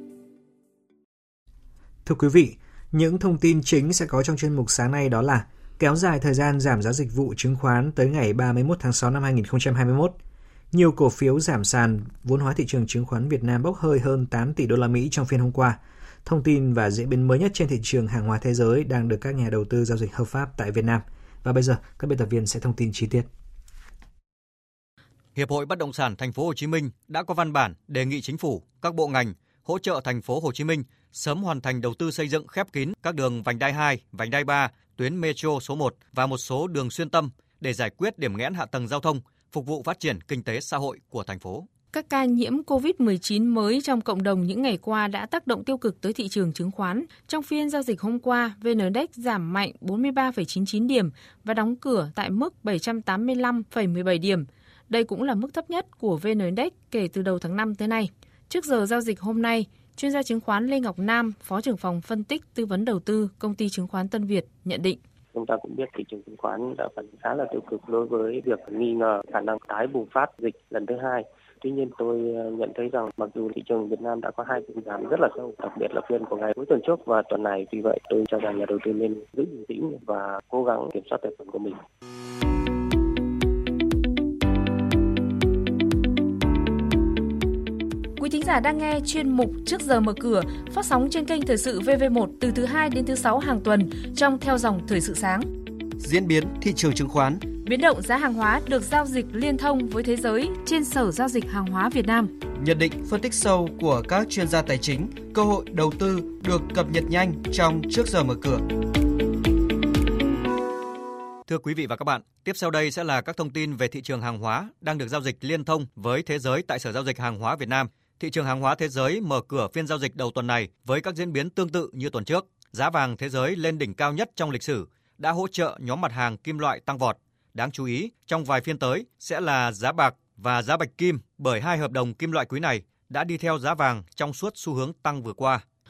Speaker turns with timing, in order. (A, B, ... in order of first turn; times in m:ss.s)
0:02.0-0:10.2 A
0:10.7-0:23.3 A
0:25.4-0:41.7 B
0:41.9-1:05.0 C
1:05.3-1:21.8 D
1:28.2-1:35.4 C
1:36.0-1:37.4 E
1:37.6-1:42.3 C
1:42.6-1:48.6 E
1:51.5-2:15.6 B